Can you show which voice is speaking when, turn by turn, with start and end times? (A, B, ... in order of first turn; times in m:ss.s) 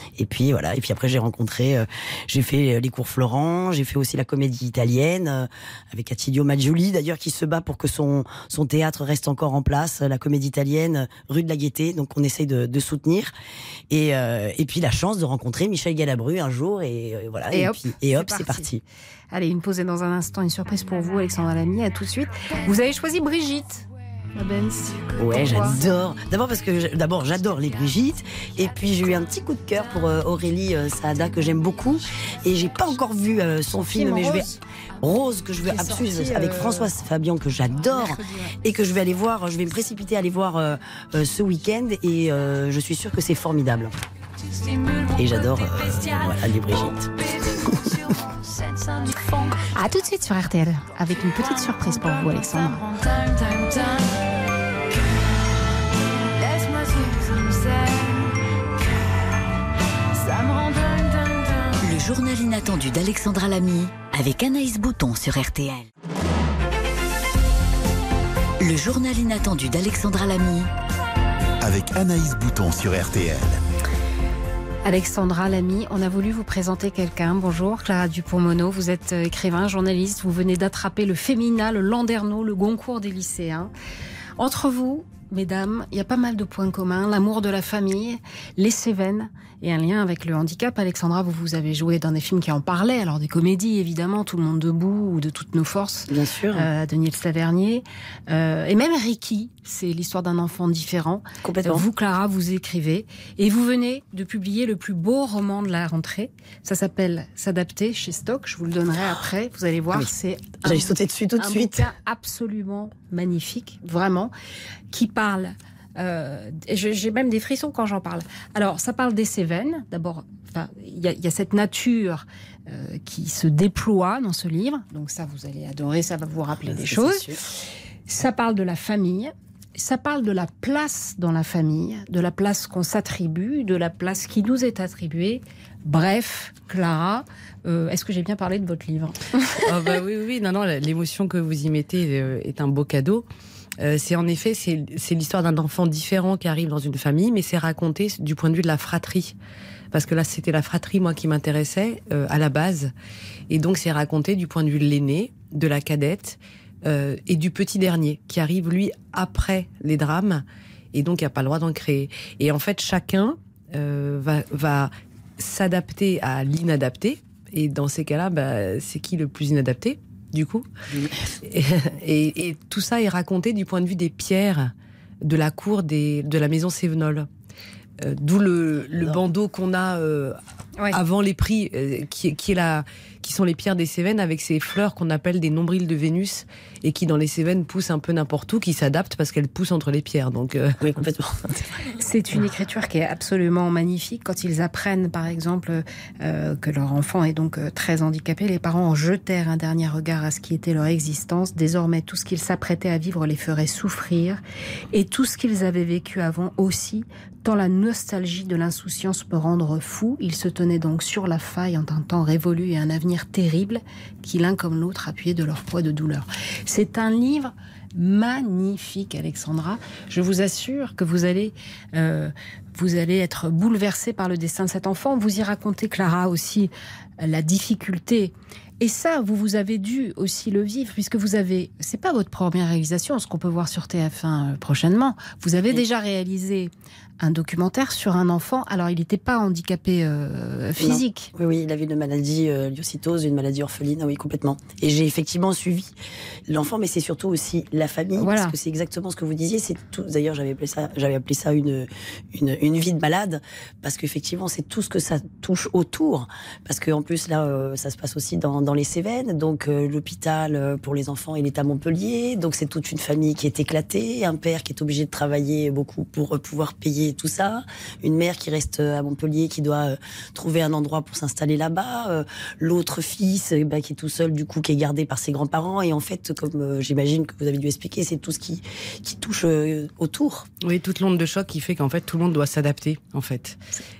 0:00.2-0:13.3 A
0:13.9-0:18.8 A
0:17.5-0:18.7 B
0:19.3-0:25.8 B
0:25.2-0:34.5 A
0:33.9-0:34.5 B
0:35.0-0:43.9 A
0:35.6-0:36.9 B
0:37.7-0:38.6 B
0:45.2-0:48.0 A
0:49.7-0:52.9 B
1:01.8-1:05.9 C
1:08.6-1:10.7 C
1:11.6-1:13.6 D
1:14.8-1:23.7 B
1:24.4-1:54.3 B
1:36.1-1:36.7 A
1:41.4-1:41.8 A
1:50.6-1:51.9 A
1:54.9-2:07.3 B
2:06.6-2:07.4 A
2:08.1-2:19.6 B
2:19.6-2:23.2 E
2:23.8-2:29.3 E
2:29.9-2:32.9 E
2:33.5-2:50.7 E
2:51.4-2:57.3 E
2:58.0-3:00.4 E
3:00.9-3:10.8 E
3:10.8-3:11.8 A
3:12.0-3:24.4 B
3:24.9-4:01.3 B
4:00.8-4:05.9 A
4:06.5-4:40.5 A
4:08.2-4:08.5 B
4:40.6-4:43.6 E